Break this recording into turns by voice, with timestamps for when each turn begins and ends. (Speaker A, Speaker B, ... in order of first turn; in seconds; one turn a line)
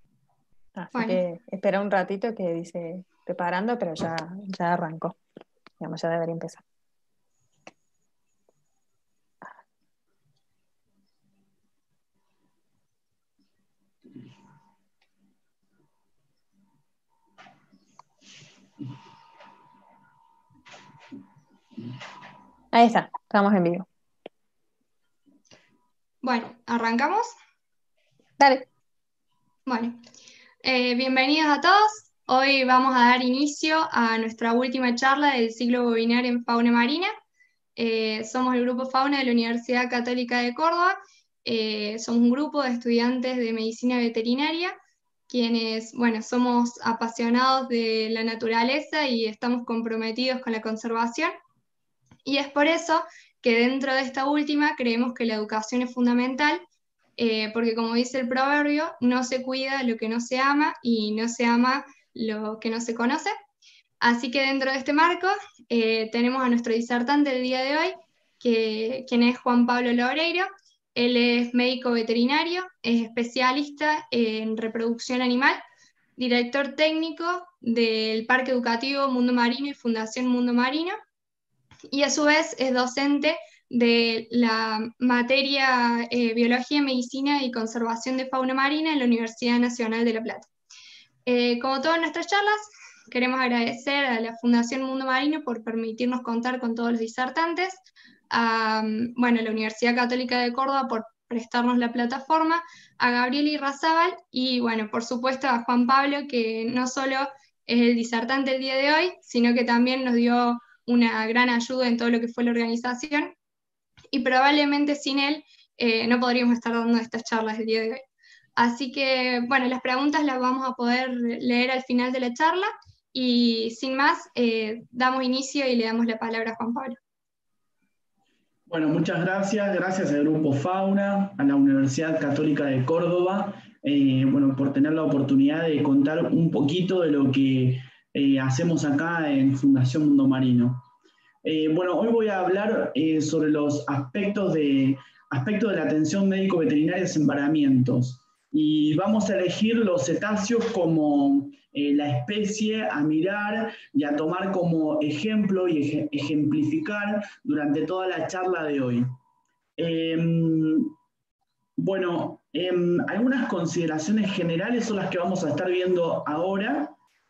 Speaker A: 0.7-5.2
Speaker B: 0.9-1.2
Speaker A: 5.8-6.6
Speaker A: 22.7-23.9
Speaker B: 26.2-27.3
Speaker A: 28.4-28.6
Speaker B: 29.7-30.0
Speaker B: 30.6-37.1
Speaker B: 37.8-44.7
Speaker B: 45.3-51.3
Speaker B: 52.2-56.6
Speaker B: 57.2-63.3
Speaker B: 64.0-75.6
Speaker B: 76.2-81.0
Speaker B: 81.9-90.5
Speaker B: 91.2-97.8
Speaker B: 98.3-113.3
Speaker B: 114.1-118.0
Speaker B: 118.5-127.0
Speaker C: 128.7-140.8
Speaker C: 141.4-159.1
Speaker C: 159.8-160.9
Speaker C: 161.8-166.9